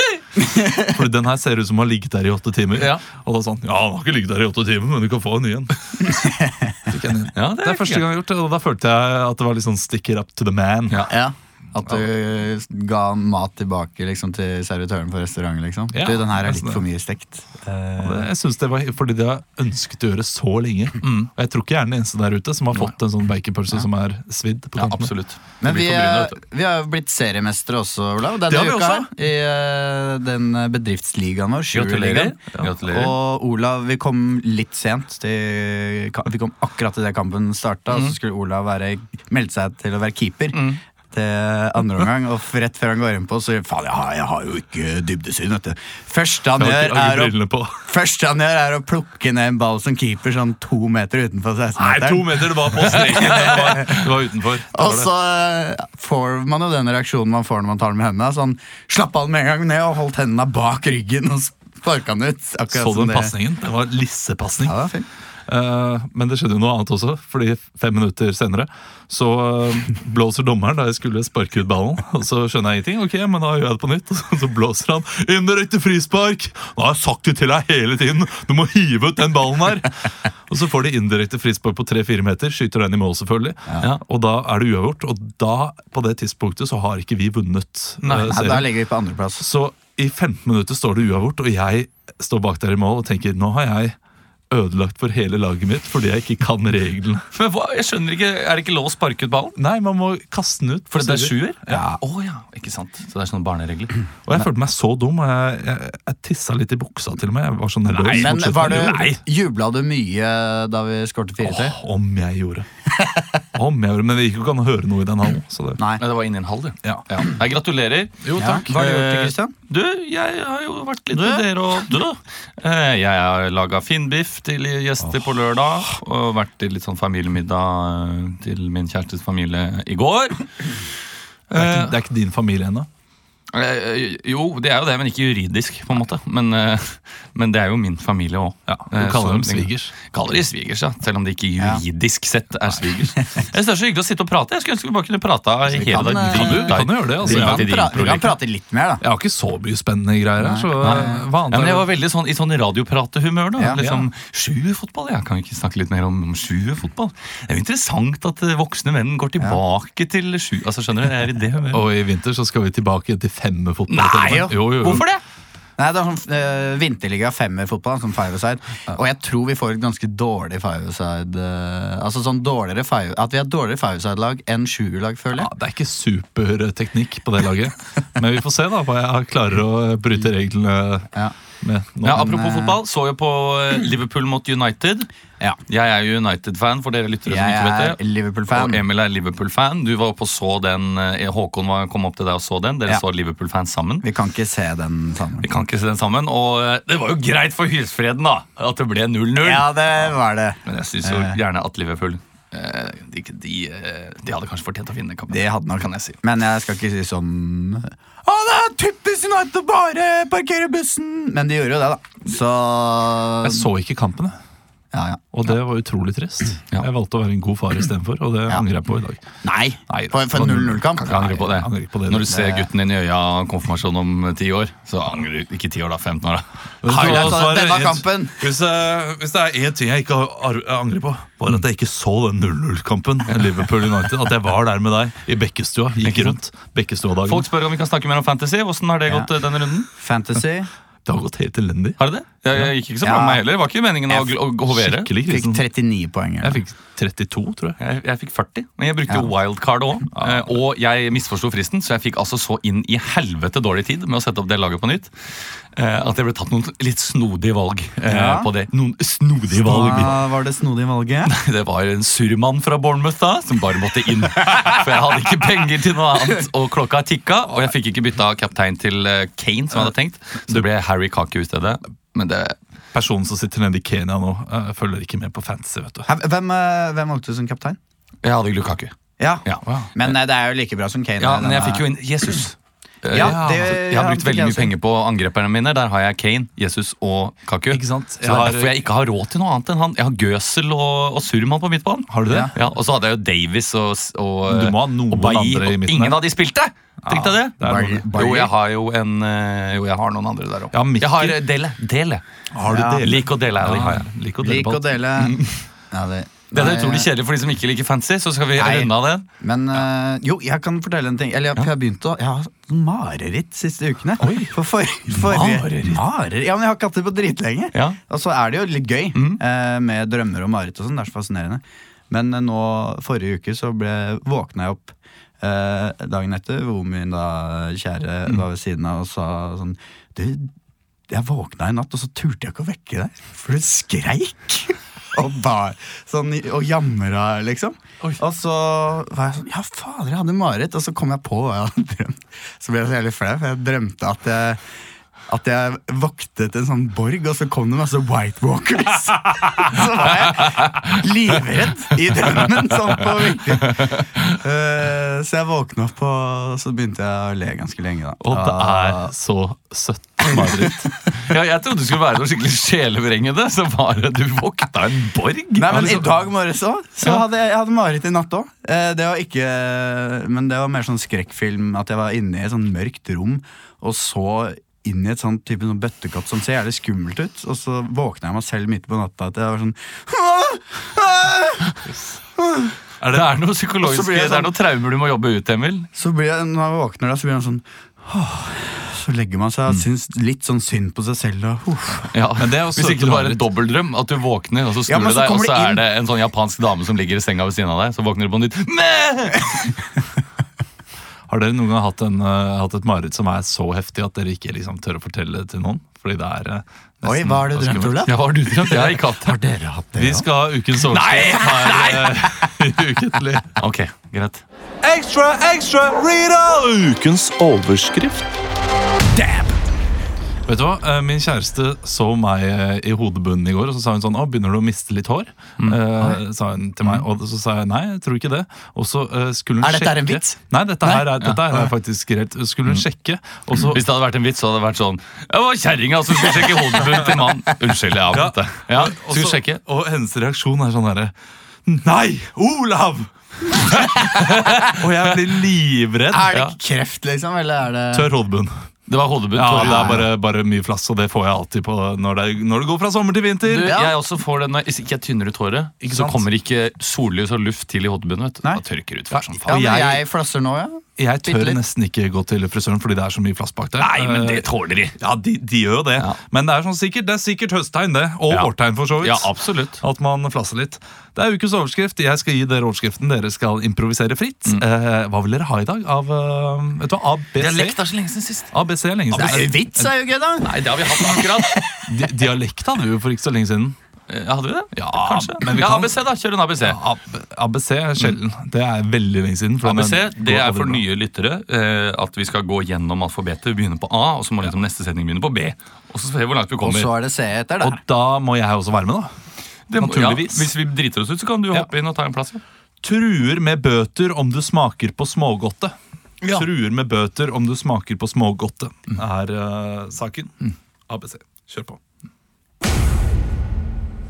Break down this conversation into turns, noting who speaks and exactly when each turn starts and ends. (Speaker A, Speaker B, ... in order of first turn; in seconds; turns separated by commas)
Speaker A: 0.8-6.1, Speaker B: 2.8-3.0, Speaker C: 6.1-6.7, Speaker A: 6.9-11.1, Speaker B: 7.3-8.0, Speaker B: 10.9-11.1, Speaker C: 11.1-18.3, Speaker A: 15.9-16.8, Speaker A: 18.0-25.1, Speaker B: 21.0-21.3, Speaker B: 24.8-26.4, Speaker C: 25.6-54.0, Speaker A: 28.5-29.1, Speaker B: 31.7-33.1, Speaker B: 37.9-38.1, Speaker B: 40.5-40.8, Speaker A: 46.6-47.7, Speaker A: 51.8-55.1, Speaker B: 52.8-54.0, Speaker C: 54.7-63.3, Speaker A: 62.7-64.9, Speaker C: 64.6-65.1, Speaker A: 65.5-88.7, Speaker B: 88.0-88.3, Speaker C: 88.2-89.4, Speaker A: 89.4-94.0, Speaker A: 94.5-97.2, Speaker B: 97.3-99.5, Speaker A: 99.6-102.0, Speaker B: 100.9-103.9, Speaker A: 104.2-109.2, Speaker B: 107.9-109.1, Speaker C: 108.1-111.8, Speaker A: 111.4-112.7, Speaker C: 113.0-113.2, Speaker A: 113.5-115.8, Speaker C: 115.8-116.0, Speaker B: 116.0-130.8, Speaker A: 118.2-118.8, Speaker C: 118.3-119.5, Speaker C: 121.1-121.4, Speaker B: 131.5-131.9, Speaker A: 131.5-132.9, Speaker B: 133.5-148.3, Speaker A: 138.7-139.9, Speaker C: 145.7-149.0, Speaker A: 145.9-147.7, Speaker A: 149.0-151.9, Speaker C: 150.4-151.2, Speaker B: 150.8-161.8, Speaker A: 153.8-154.1, Speaker A: 161.7-165.1, Speaker B: 163.9-165.2, Speaker C: 164.1-164.5, Speaker C: 165.8-175.5, Speaker A: 175.3-181.1, Speaker A: 181.6-182.3, Speaker B: 182.0-185.1, Speaker C: 182.1-182.8, Speaker B: 185.7-188.0, Speaker C: 187.2-188.8, Speaker B: 188.5-194.0, Speaker C: 194.0-195.5, Speaker B: 195.4-200.1, Speaker C: 199.4-201.4, Speaker B: 200.6-206.2, Speaker C: 205.3-213.7, Speaker A: 213.4-214.3, Speaker C: 214.9-215.2, Speaker A: 215.3-219.2, Speaker C: 219.4-221.5, Speaker A: 219.9-222.3, Speaker B: 221.0-227.5, Speaker C: 222.3-222.7, Speaker A: 226.8-237.5, Speaker C: 226.9-228.4, Speaker B: 236.0-236.4, Speaker B: 237.2-239.9, Speaker C: 239.9-240.7, Speaker A: 241.1-242.0, Speaker B: 242.0-245.1, Speaker C: 243.0-243.4, Speaker A: 244.7-245.6, Speaker C: 245.3-246.6, Speaker A: 246.4-247.8, Speaker B: 247.8-260.2, Speaker A: 250.1-250.6, Speaker C: 258.0-258.5, Speaker C: 259.6-261.3, Speaker A: 259.6-260.2, Speaker B: 261.2-272.6, Speaker A: 272.9-276.1, Speaker C: 276.1-277.8, Speaker B: 278.2-278.9, Speaker C: 279.2-281.9, Speaker B: 279.4-280.1, Speaker B: 281.2-297.6, Speaker C: 283.1-284.7, Speaker A: 283.1-283.8, Speaker A: 287.7-288.8, Speaker A: 292.1-292.5, Speaker C: 292.3-292.6, Speaker A: 294.5-296.2, Speaker A: 297.0-298.1, Speaker C: 297.6-298.5, Speaker B: 298.1-302.2, Speaker A: 300.7-301.4, Speaker A: 302.5-304.9, Speaker C: 302.6-303.8, Speaker B: 303.0-304.0, Speaker C: 304.4-305.4, Speaker B: 305.2-305.6, Speaker C: 305.9-307.1, Speaker B: 306.5-309.2, Speaker C: 308.6-330.5, Speaker A: 314.2-314.5, Speaker B: 314.2-314.5, Speaker B: 315.1-316.0, Speaker B: 319.1-319.4, Speaker C: 331.1-344.6, Speaker C: 345.3-359.1, Speaker B: 353.0-354.4, Speaker A: 358.2-360.9, Speaker B: 361.1-366.1, Speaker C: 365.6-381.8, Speaker A: 365.7-366.2, Speaker C: 382.4-382.7, Speaker A: 383.0-383.3, Speaker B: 383.1-385.9, Speaker C: 383.8-384.5, Speaker C: 385.9-392.1, Speaker B: 392.1-399.8, Speaker A: 392.4-393.4, Speaker C: 394.9-395.8, Speaker A: 401.3-408.1, Speaker C: 407.0-408.1, Speaker B: 408.1-409.4, Speaker C: 408.7-410.3, Speaker A: 409.9-413.6, Speaker B: 410.9-412.1, Speaker C: 411.7-412.5, Speaker B: 413.6-414.4, Speaker A: 414.8-418.3, Speaker C: 419.1-419.5, Speaker A: 420.4-433.8, Speaker C: 429.6-431.7, Speaker B: 433.6-439.6, Speaker A: 438.1-441.1, Speaker A: 441.6-443.1, Speaker A: 443.8-446.3, Speaker B: 444.1-444.7, Speaker C: 446.1-448.1, Speaker A: 447.9-448.5, Speaker B: 448.9-450.0, Speaker A: 449.3-453.8, Speaker C: 449.6-450.0, Speaker B: 453.4-459.6, Speaker C: 453.6-453.9, Speaker A: 455.8-456.3, Speaker A: 459.1-460.0, Speaker C: 459.5-461.6, Speaker A: 461.0-477.8, Speaker B: 463.8-465.0, Speaker B: 468.3-469.8, Speaker B: 477.4-478.5, Speaker A: 478.5-479.9, Speaker C: 479.1-481.9, Speaker B: 480.4-481.6, Speaker A: 481.9-483.8, Speaker B: 484.1-486.8, Speaker A: 484.7-485.9, Speaker A: 486.6-490.8, Speaker B: 489.6-496.9, Speaker C: 496.6-497.8, Speaker A: 497.6-499.1, Speaker B: 499.7-502.4, Speaker A: 499.8-500.5, Speaker A: 502.8-505.7, Speaker B: 506.2-506.5, Speaker A: 506.3-510.3, Speaker A: 510.9-511.8